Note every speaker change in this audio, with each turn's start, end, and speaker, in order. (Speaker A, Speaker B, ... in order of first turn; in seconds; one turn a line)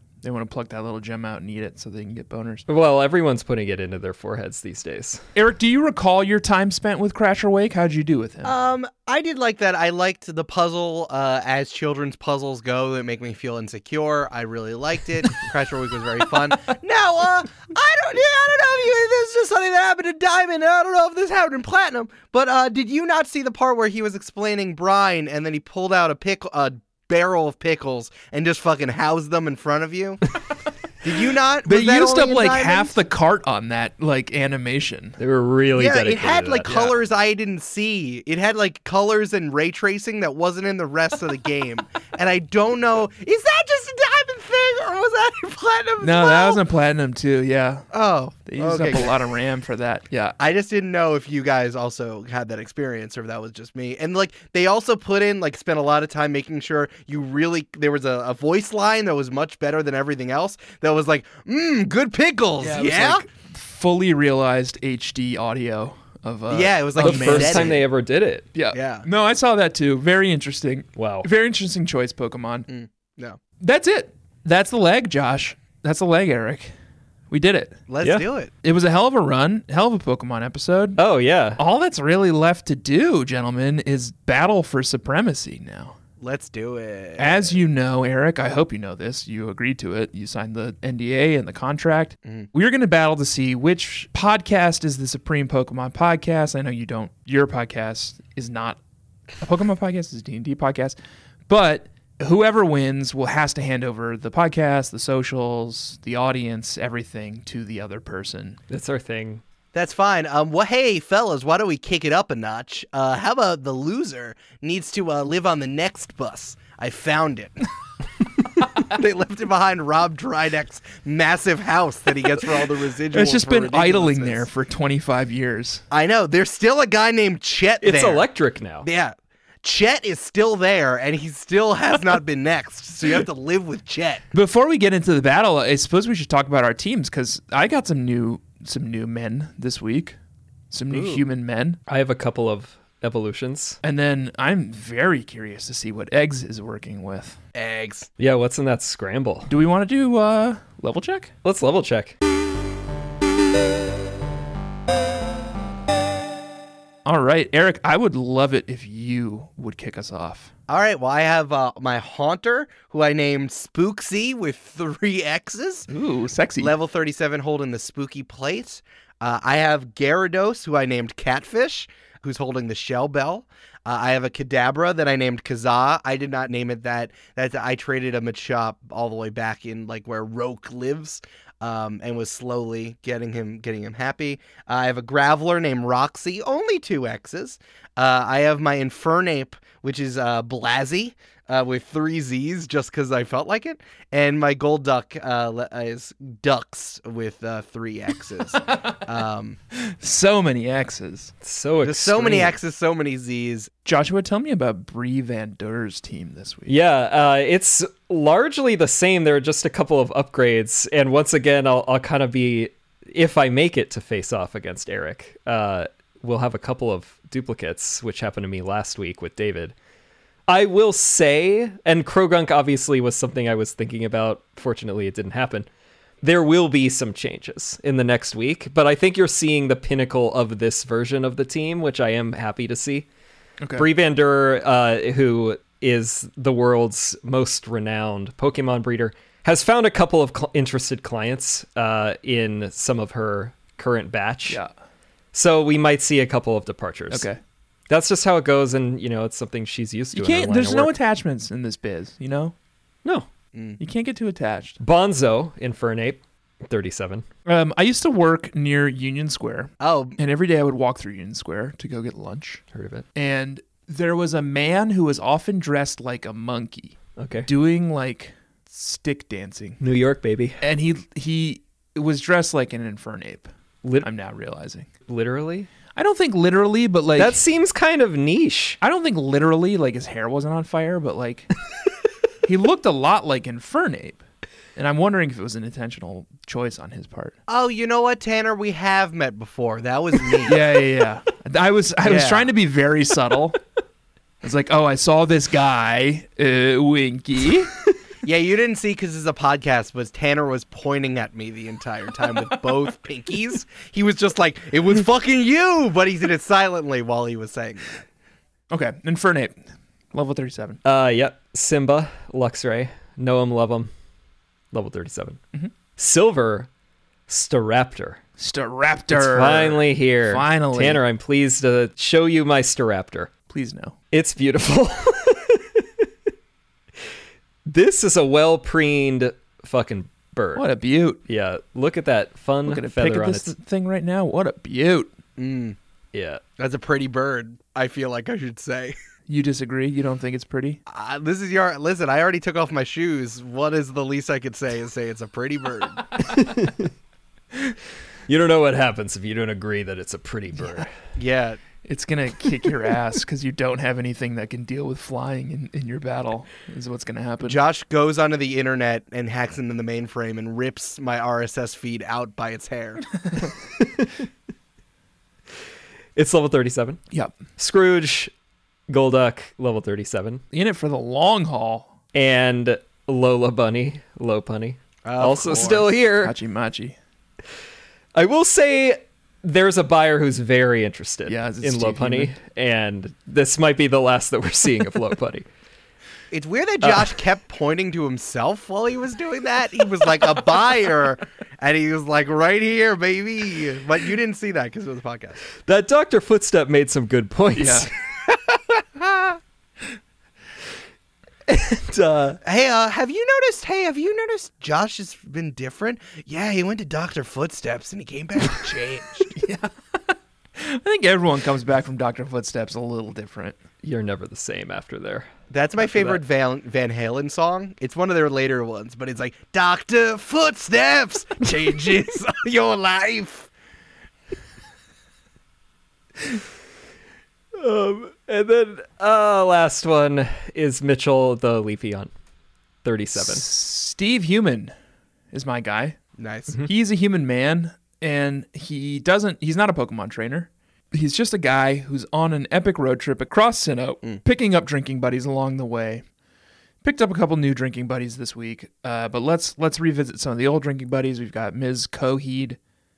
Speaker A: 0.2-2.7
Speaker B: 2.7-5.2
Speaker A: 5.3-8.5
Speaker C: 8.4-30.2
Speaker C: 31.0-33.0
Speaker A: 31.6-35.2
Speaker B: 35.2-36.7
Speaker C: 35.8-46.6
Speaker A: 36.7-36.9
Speaker A: 46.0-47.9
Speaker C: 47.9-49.2
Speaker A: 48.5-50.4
Speaker C: 50.4-63.2
Speaker A: 62.6-67.8
Speaker C: 66.5-67.8
Speaker B: 67.0-68.5
Speaker A: 68.5-72.7
Speaker C: 68.7-69.0
Speaker B: 71.0-71.3
Speaker C: 72.7-73.4
Speaker A: 73.6-76.7
Speaker A: 77.3-77.8
Speaker C: 77.9-78.5
Speaker A: 78.6-81.0
Speaker B: 81.0-81.6
Speaker A: 81.6-86.0
Speaker C: 86.2-87.6
Speaker A: 87.2-98.8
Speaker A: 99.4-101.0
Speaker A: 101.5-108.6
Speaker B: 108.7-109.4
Speaker C: 109.7-117.6
Speaker C: 118.8-124.5
Speaker A: 123.1-125.8
Speaker C: 125.9-128.2
Speaker B: 127.8-128.8
Speaker C: 128.8-134.2
Speaker A: 134.3-140.2
Speaker A: 140.7-141.8
Speaker C: 140.9-141.2
Speaker B: 141.9-143.8
Speaker A: 143.8-147.4
Speaker C: 147.5-148.1
Speaker B: 148.2-149.5
Speaker A: 149.5-151.3
Speaker B: 151.4-152.1
Speaker A: 157.0-160.5
Speaker C: 160.7-165.9
Speaker A: 165.9-166.7
Speaker C: 166.6-199.6
Speaker A: 198.6-198.9
Speaker A: 199.7-201.3
Speaker B: 201.4-202.6
Speaker C: 201.8-203.7
Speaker A: 203.8-206.7
Speaker B: 206.7-219.7
Speaker B: 220.5-225.7
Speaker B: 226.2-233.1
Speaker A: 233.6-233.9
Speaker B: 233.8-244.6
Speaker B: 245.3-247.3
Speaker A: 247.1-247.4
Speaker B: 247.9-250.9
Speaker A: 250.1-252.5
Speaker C: 253.5-253.8
Speaker A: 253.8-254.8
Speaker B: 254.8-257.2
Speaker A: 257.4-262.6
Speaker C: 259.8-260.2
Speaker B: 262.7-263.1
Speaker A: 263.1-269.8
Speaker B: 267.2-267.5
Speaker B: 269.8-270.6
Speaker A: 270.6-273.5
Speaker A: 274.0-274.9
Speaker B: 275.1-275.7
Speaker A: 275.9-277.4
Speaker B: 277.2-278.8
Speaker A: 278.8-281.5
Speaker A: 282.4-284.2
Speaker A: 284.8-287.4
Speaker C: 287.5-290.6
Speaker A: 290.5-293.6
Speaker C: 292.0-292.5
Speaker A: 294.4-297.7
Speaker C: 298.2-308.0
Speaker A: 308.7-310.8
Speaker B: 310.8-313.9
Speaker B: 314.7-315.4
Speaker B: 316.0-316.7
Speaker B: 317.3-318.2
Speaker A: 318.4-321.0
Speaker B: 319.1-323.3
Speaker A: 323.5-323.9
Speaker B: 324.1-325.8
Speaker B: 327.6-330.6
Speaker A: 330.5-331.2
Speaker B: 331.3-333.5
Speaker A: 332.6-335.1
Speaker C: 335.4-335.8
Speaker B: 336.1-336.4
Speaker C: 336.6-338.9
Speaker A: 339.3-340.8
Speaker C: 340.9-346.0
Speaker B: 346.2-346.9
Speaker B: 348.3-350.9
Speaker C: 351.1-351.6
Speaker A: 351.8-357.6
Speaker C: 357.4-363.1
Speaker B: 363.8-364.1
Speaker B: 366.1-367.0
Speaker B: 367.6-368.3
Speaker B: 368.9-370.4
Speaker A: 370.5-371.9
Speaker B: 372.1-376.3
Speaker C: 375.0-375.9
Speaker A: 376.2-376.9
Speaker B: 378.1-385.4
Speaker A: 381.2-382.3
Speaker C: 386.3-395.4
Speaker B: 395.6-397.9
Speaker A: 397.6-397.9
Speaker C: 398.9-399.4
Speaker B: 401.5-402.4
Speaker C: 402.4-409.3
Speaker A: 409.3-413.6
Speaker B: 413.8-415.3
Speaker C: 415.5-423.5
Speaker B: 415.8-416.2
Speaker B: 427.5-432.1
Speaker B: 432.8-433.4
Speaker A: 433.1-434.7
Speaker A: 435.3-436.0
Speaker C: 436.2-436.6
Speaker A: 436.6-446.0
Speaker A: 446.8-452.6